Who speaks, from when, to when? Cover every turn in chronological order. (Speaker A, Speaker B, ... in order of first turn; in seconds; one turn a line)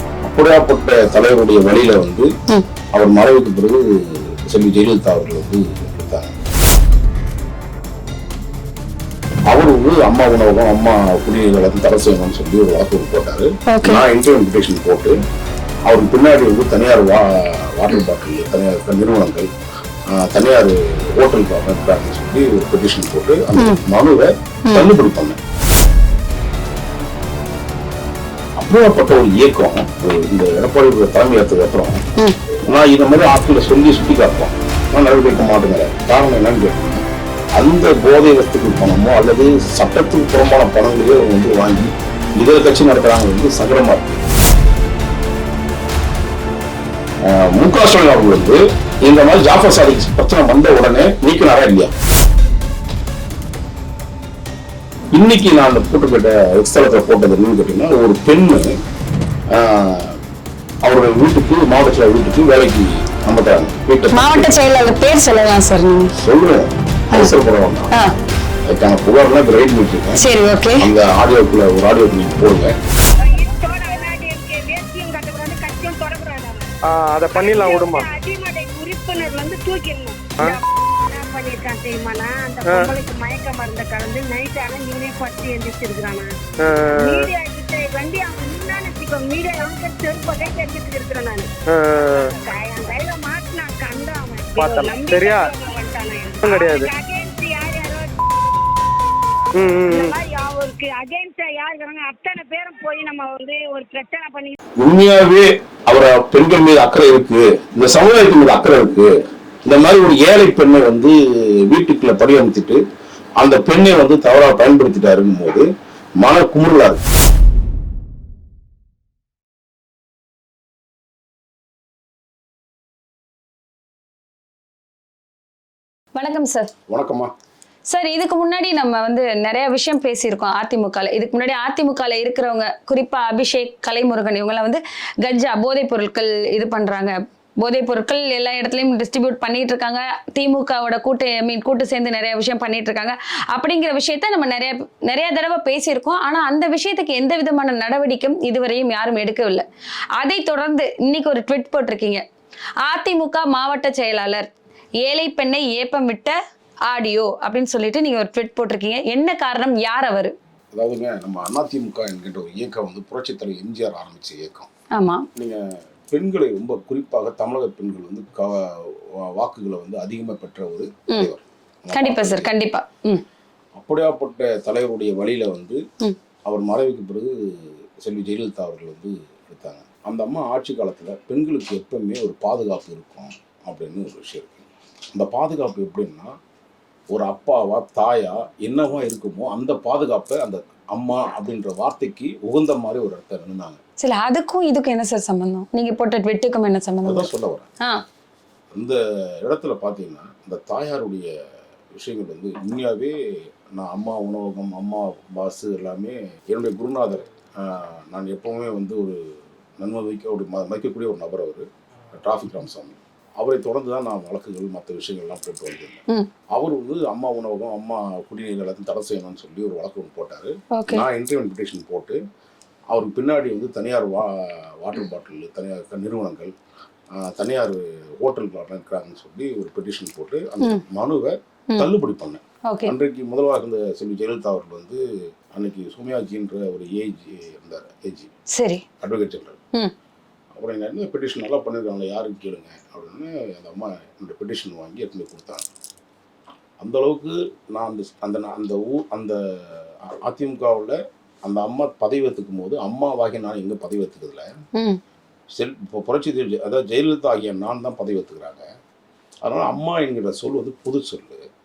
Speaker A: 0.2-2.3
Speaker A: 2.9-6.3
Speaker A: 9.5-15.2
Speaker B: 13.7-14.1
Speaker A: 15.9-19.5
Speaker A: 20.1-25.4
Speaker B: 24.7-24.9
Speaker A: 28.6-32.0
Speaker A: 32.7-37.0
Speaker A: 37.6-44.2
Speaker A: 47.2-51.9
Speaker A: 55.1-58.7
Speaker A: 59.5-60.2
Speaker A: 60.8-64.6
Speaker B: 64.1-66.2
Speaker A: 66.2-67.9
Speaker B: 67.1-67.4
Speaker A: 68.7-70.2
Speaker B: 70.2-70.9
Speaker A: 70.8-72.8
Speaker C: 73.2-76.7
Speaker D: 76.9-78.1
Speaker C: 77.3-86.3
Speaker D: 86.6-87.3
Speaker C: 87.0-91.5
Speaker D: 91.7-92.3
Speaker C: 92.1-98.1
Speaker D: 94.6-95.5
Speaker D: 96.4-96.9
Speaker D: 99.6-100.2
Speaker C: 99.9-104.6
Speaker A: 104.8-109.2
Speaker A: 109.7-112.8
Speaker A: 113.4-115.7
Speaker A: 116.2-117.0
Speaker B: 126.2-126.7
Speaker A: 126.9-127.3
Speaker B: 127.9-152.2
Speaker B: 152.8-154.5
Speaker B: 155.0-156.4
Speaker B: 156.9-160.3
Speaker A: 160.7-164.7
Speaker B: 164.9-165.3
Speaker A: 165.3-172.5
Speaker B: 171.9-173.2
Speaker A: 173.8-175.8
Speaker A: 176.5-186.3
Speaker A: 187.1-193.8
Speaker B: 194.0-197.3
Speaker A: 197.0-197.7
Speaker A: 198.7-201.3
Speaker A: 201.9-203.2
Speaker A: 203.8-209.2
Speaker A: 209.8-222.2
Speaker B: 220.7-221.1
Speaker A: 222.9-226.5
Speaker A: 227.2-238.3
Speaker B: 232.7-232.9
Speaker B: 238.5-238.8
Speaker A: 239.0-239.6
Speaker A: 240.5-245.7
Speaker A: 246.8-254.5
Speaker A: 255.5-258.6
Speaker A: 259.4-261.4